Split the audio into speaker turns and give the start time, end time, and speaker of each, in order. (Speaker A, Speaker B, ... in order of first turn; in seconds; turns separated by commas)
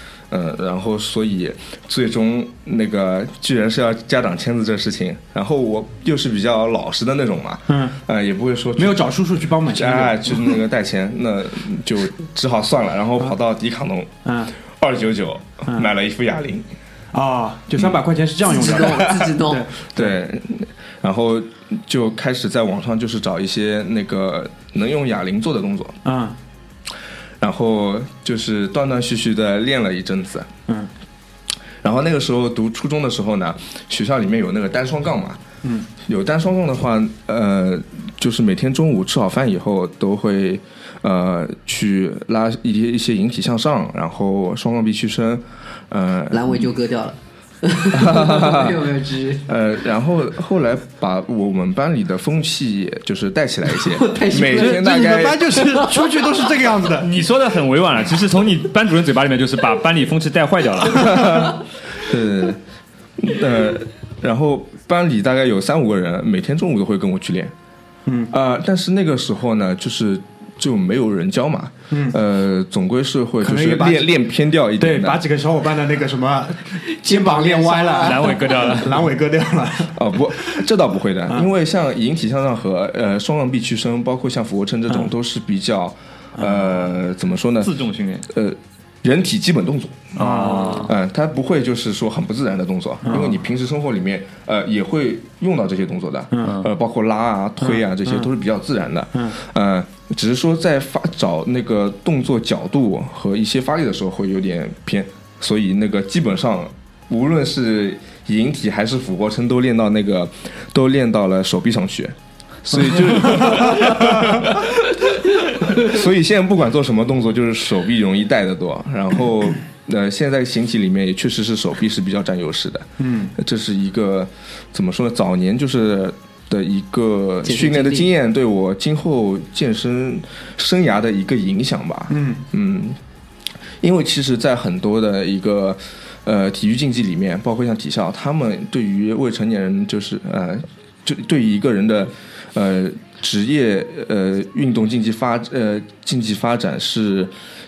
Speaker A: 0.3-9.1, Speaker B: 7.7-8.0, Speaker B: 8.8-10.6, Speaker A: 9.7-14.1, Speaker B: 14.2-14.5, Speaker A: 14.7-16.7, Speaker B: 15.7-15.9, Speaker B: 17.1-20.1, Speaker C: 18.4-19.7, Speaker A: 18.8-26.0, Speaker B: 26.0-26.4, Speaker A: 27.4-30.5, Speaker A: 31.8-35.4, Speaker A: 36.0-46.7, Speaker C: 46.3-49.5, Speaker A: 47.9-48.9, Speaker A: 49.5-55.6, Speaker C: 53.8-56.4, Speaker B: 54.3-57.1, Speaker D: 56.9-61.6, Speaker A: 61.0-62.6, Speaker A: 63.2-67.5, Speaker B: 68.1-68.3, Speaker A: 68.3-75.2, Speaker B: 71.9-72.2, Speaker B: 73.4-74.2, Speaker B: 74.8-80.6, Speaker C: 77.0-78.7, Speaker D: 78.0-79.0, Speaker A: 79.9-87.8, Speaker B: 86.4-86.7, Speaker D: 87.6-88.3, Speaker A: 88.3-90.1, Speaker D: 90.2-90.9, Speaker B: 90.2-90.9, Speaker A: 90.8-133.0, Speaker B: 93.0-93.4, Speaker B: 96.3-96.6, Speaker B: 97.6-98.3, Speaker B: 112.7-114.5, Speaker B: 123.0-123.4, Speaker C: 127.4-128.1, Speaker B: 132.1-132.4, Speaker A: 133.8-147.3